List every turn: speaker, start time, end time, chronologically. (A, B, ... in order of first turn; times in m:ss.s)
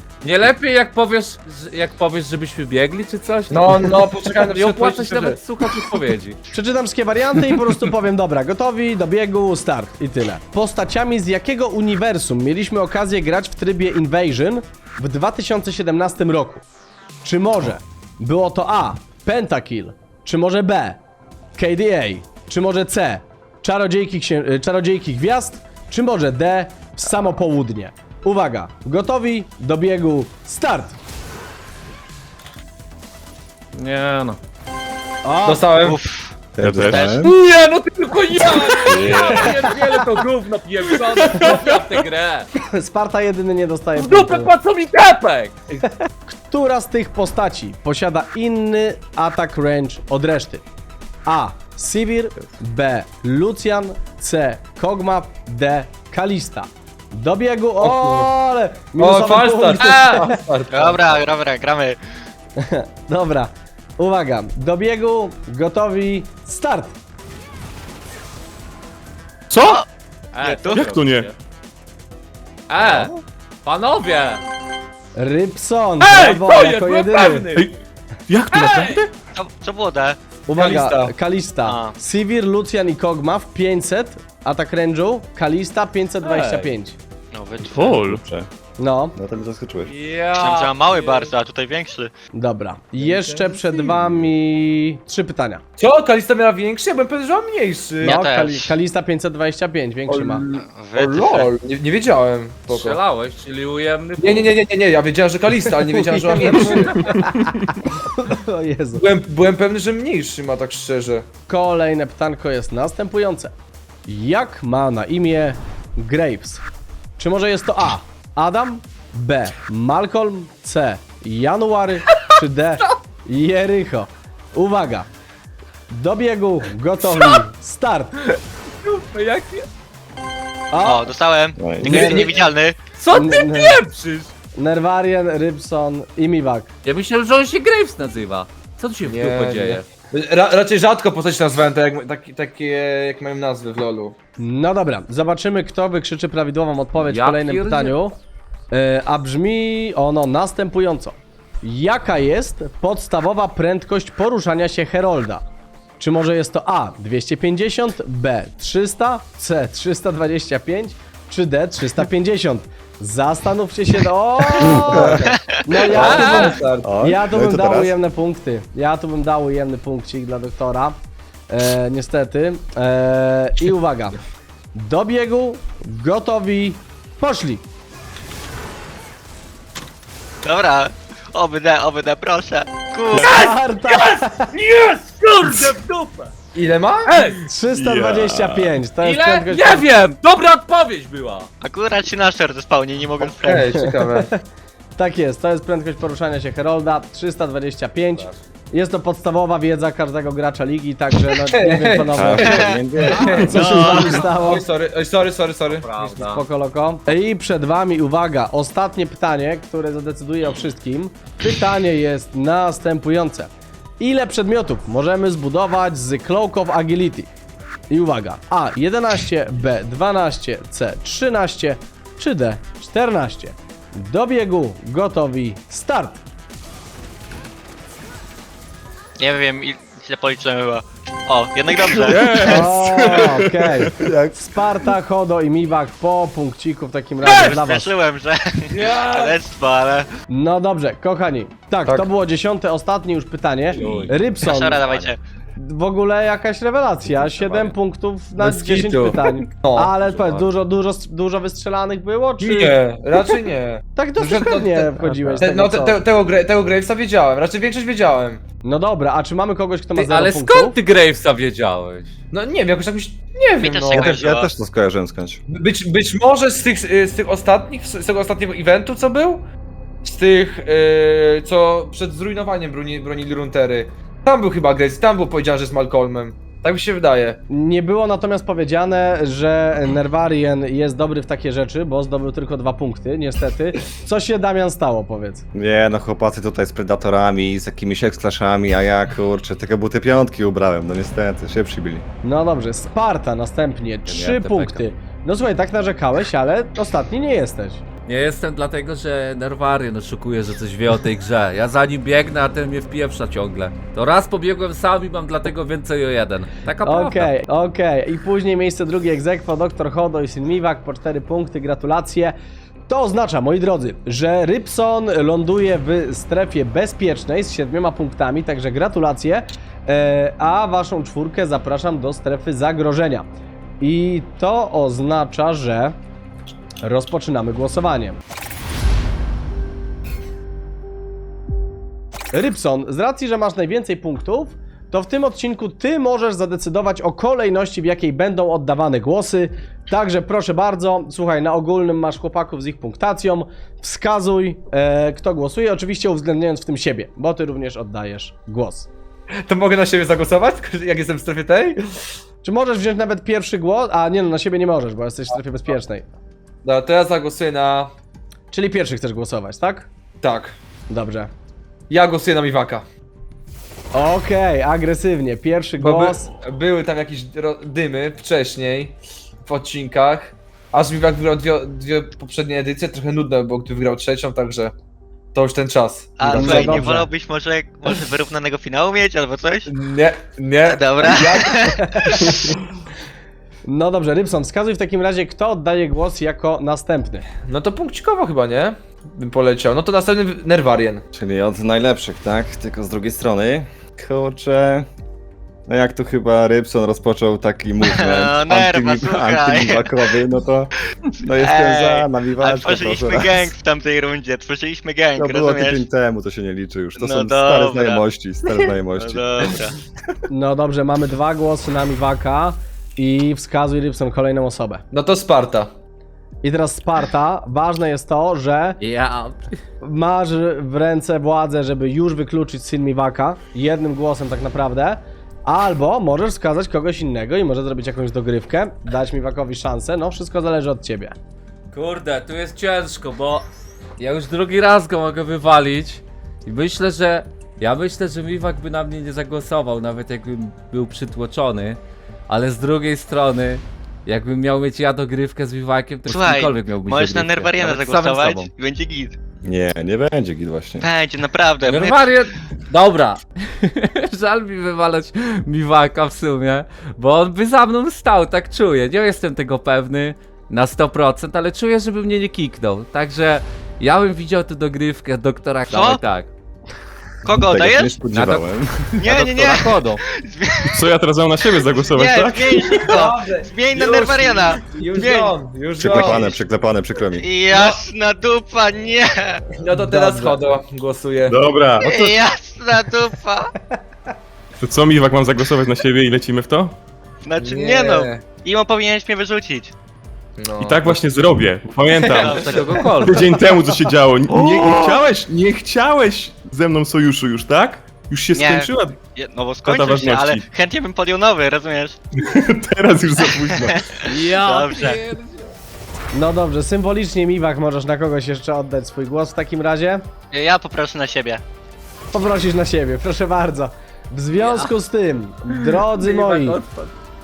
0:00.2-0:06.4 A
0:03.5-0:05.4 B
0:06.5-0:16.6 C
0:17.2-0:21.0 C
0:21.6-0:31.0 C
0:33.8-0:34.4 A
0:35.2-0:35.7 C
0:35.4-0:36.0 B
0:35.8-0:36.3 D
0:36.6-0:37.3 E
0:36.6-0:37.1 F
0:36.9-0:37.2 D
0:37.2-0:39.2 B
0:38.1-0:42.5 A
0:38.9-0:39.5 E
0:39.2-0:39.6 C
0:41.3-0:41.7 F
0:42.6-0:44.5 C
0:44.0-0:45.5 A
0:45.8-0:50.6 C
0:51.3-1:00.4 C
0:57.8-0:58.3 B
0:59.0-1:01.2 B
0:59.8-1:00.1 D
1:00.7-1:02.0 D
1:02.6-1:07.0 C
1:09.5-1:09.8 F
1:09.6-1:09.9 D
1:10.3-1:11.4 A
1:10.4-1:10.9 D
1:10.8-1:11.3 F
1:12.7-1:14.4 A
1:15.2-1:17.5 C
1:16.0-1:17.7 A
1:18.3-1:19.1 F
1:18.5-1:19.0 A
1:19.4-1:20.2 D
1:20.5-1:27.0 C
1:20.6-1:21.1 B
1:21.7-1:22.0 D
1:26.2-1:26.7 A
1:27.3-1:28.1 D
1:27.7-1:28.2 F
1:28.0-1:28.5 E
1:28.8-1:29.2 C
1:29.2-1:29.9 E
1:29.9-1:31.3 A
1:30.4-1:32.1 D
1:32.4-1:35.6 C
1:33.0-1:34.0 B
1:35.8-1:38.2 B
1:38.0-1:38.7 D
1:38.0-1:40.4 C
1:40.1-1:43.0 B
1:40.7-1:41.5 D
1:42.7-1:44.5 A
1:44.2-1:47.0 B
1:45.8-1:49.0 C
1:49.0-1:51.3 B
1:51.5-1:53.5 C
1:54.1-1:56.6 C
1:57.2-2:05.1 C
2:05.9-2:08.2 C
2:08.8-2:09.7 A
2:10.7-2:11.1 C
2:10.8-2:12.8 D
2:11.6-2:12.0 E
2:11.8-2:12.3 B
2:11.9-2:12.3 C
2:13.0-2:14.3 A
2:13.1-2:13.8 C
2:14.6-2:16.7 C
2:16.8-2:19.8 A
2:19.0-2:24.2 B
2:24.4-2:28.2 C
2:27.0-2:27.9 A
2:28.7-2:35.4 C
2:36.0-2:51.0 C
2:44.7-2:45.3 E
2:44.8-2:45.3 B
2:45.9-2:46.9 B
2:45.9-2:46.6 A
2:46.8-2:48.0 E
2:51.5-2:54.2 C
2:54.8-2:57.6 C
3:00.4-3:03.4 D
3:03.1-3:04.5 C
3:03.1-3:06.3 A
3:06.6-3:07.1 B
3:07.1-3:07.4 A
3:07.4-3:09.9 C
3:07.7-3:08.8 F
3:09.0-3:11.5 A
3:11.6-3:13.7 D
3:13.2-3:14.3 B
3:13.8-3:14.4 C
3:15.0-3:24.6 C
3:21.4-3:22.5 B
3:22.1-3:23.6 E
3:22.4-3:24.2 D
3:23.1-3:26.2 B
3:25.7-3:26.4 A
3:26.2-3:33.5 C
3:34.0-3:37.3 C
3:37.9-3:46.2 C
3:49.2-3:52.7 D
3:51.8-3:54.1 F
3:52.4-3:57.9 C
3:54.0-3:54.3 E
3:57.2-4:00.1 D
3:58.7-3:59.4 B
4:00.3-4:04.8 C
4:03.7-4:04.2 A
4:03.8-4:04.1 B
4:04.4-4:05.2 D
4:05.6-4:12.8 C
4:07.1-4:07.7 A
4:08.4-4:09.9 B
4:10.0-4:10.4 A
4:12.4-4:18.4 B
4:13.9-4:16.0 C
4:15.0-4:15.5 A
4:18.6-4:20.8 C
4:20.1-4:22.1 A
4:22.3-4:24.1 B
4:23.6-4:24.5 D
4:23.9-4:25.4 E
4:25.5-4:29.4 B
4:30.0-4:37.4 B
4:37.5-4:45.4 C
4:45.5-4:52.0 E
4:52.2-4:57.8 C
4:54.1-4:54.8 A
4:58.1-5:07.3 A
5:06.8-5:12.4 C
5:12.9-5:23.3 C
5:23.8-5:26.0 C
5:26.8-5:28.2 C
5:32.3-5:48.9 C
5:49.5-5:52.0 B
5:52.4-5:56.1 C
5:56.6-5:57.9 B
5:58.5-5:59.9 C
6:00.2-6:00.6 B
6:00.9-6:01.3 C
6:01.9-6:02.8 B
6:03.9-6:06.3 C
6:05.8-6:14.7 B
6:15.3-6:16.9 B
6:16.2-6:19.7 D
6:16.3-6:17.1 C
6:19.7-6:21.7 B
6:20.6-6:22.6 D
6:21.8-6:22.3 C
6:23.7-6:27.3 C
6:27.5-6:31.0 B
6:31.1-6:34.9 E
6:35.7-6:43.5 E
6:37.8-6:39.9 D
6:41.2-6:45.8 D
6:45.2-6:49.5 E
6:47.0-6:48.0 D
6:49.0-6:49.8 D
6:50.3-6:54.8 C
6:54.9-6:55.7 B
6:56.4-6:58.8 C
6:58.8-6:59.5 A
6:59.8-7:11.2 C
7:11.7-7:13.5 A
7:14.0-7:28.5 A
7:26.1-7:29.2 D
7:29.4-7:30.9 E
7:30.8-7:32.3 D
7:31.6-7:46.3 A
7:45.7-7:46.0 D
7:47.2-7:48.0 D
7:47.3-7:48.7 E
7:48.1-7:50.0 A
7:49.0-7:50.8 D
7:50.7-7:53.0 F
7:51.7-7:55.3 D
7:52.9-7:56.4 B
7:55.8-7:57.3 E
7:55.9-7:56.3 D
7:57.2-7:59.4 D
7:57.5-7:57.8 B
7:59.6-8:01.4 B
8:01.3-8:02.0 E
8:01.8-8:03.5 D
8:04.6-8:06.8 F
8:07.2-8:09.7 D
8:07.4-8:08.2 B
8:10.4-8:11.0 B
8:10.6-8:19.0 F
8:12.0-8:12.9 B
8:12.1-8:13.1 D
8:12.4-8:13.3 A
8:14.4-8:15.0 D
8:18.3-8:22.0 D
8:19.6-8:20.4 F
8:22.2-8:23.8 F
8:23.5-8:23.8 D
8:24.0-8:25.5 A
8:24.3-8:25.0 D
8:26.1-8:30.0 C
8:30.3-8:31.4 D
8:32.1-8:36.6 C
8:34.3-8:34.7 D
8:35.5-8:36.9 A